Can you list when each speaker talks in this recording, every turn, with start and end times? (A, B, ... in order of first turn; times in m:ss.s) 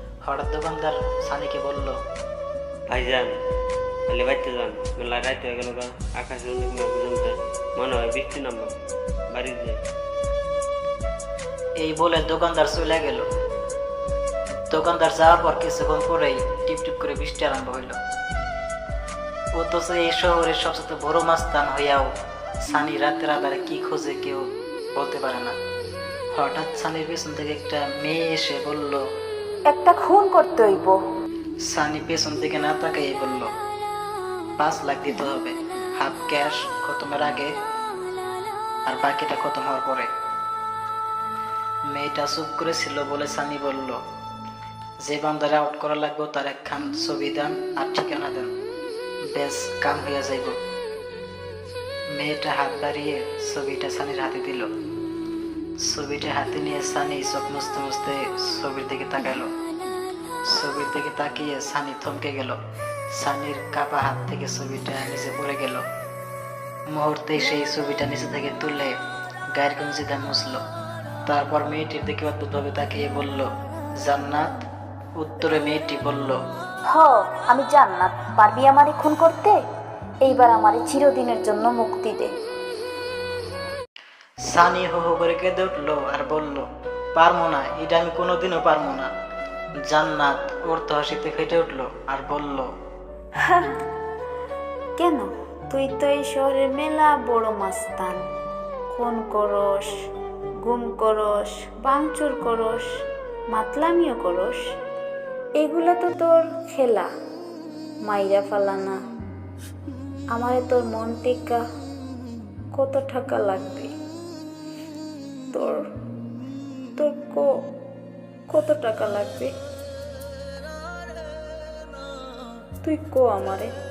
0:00.2-0:02.0 A
0:02.9-0:03.3 B
0:04.1-0:08.7 B
0:09.3-0:09.8 B
0:11.8-0:13.2 A
0:14.7-0:18.0 A
0:19.5-0:22.1 A
0:22.7-0:25.6 A
0:26.3-0:29.0 A
0:29.7-0:31.0 C
0:31.6-0:33.5 A
0:34.6-0:37.5 A
0:38.8-0:40.1 A
0:41.9-0:44.0 A
0:45.0-0:48.5 A
0:49.3-0:50.6 A
0:52.1-0:54.7 A
0:55.8-0:59.5 A
1:00.5-1:02.6 A
1:03.1-1:05.8 A
1:06.9-1:08.9 A
1:09.5-1:10.6 A
1:11.3-1:13.5 A
1:14.0-1:14.6 A
1:15.2-1:16.4 A
1:16.9-1:19.6 C
1:20.2-1:22.3 C
1:24.5-1:29.1 A
1:29.9-1:32.7 A
1:33.4-1:33.8 C
1:35.0-1:38.2 C
1:38.9-1:39.9 C
1:40.6-1:42.8 C
1:43.5-1:44.6 C
1:45.6-1:47.1 C
1:48.1-1:49.0 C
1:50.3-1:51.6 C
1:52.8-1:53.9 C
1:55.5-1:55.8 C
1:57.0-1:57.4 C
1:58.5-1:59.5 C
2:02.8-2:03.7 C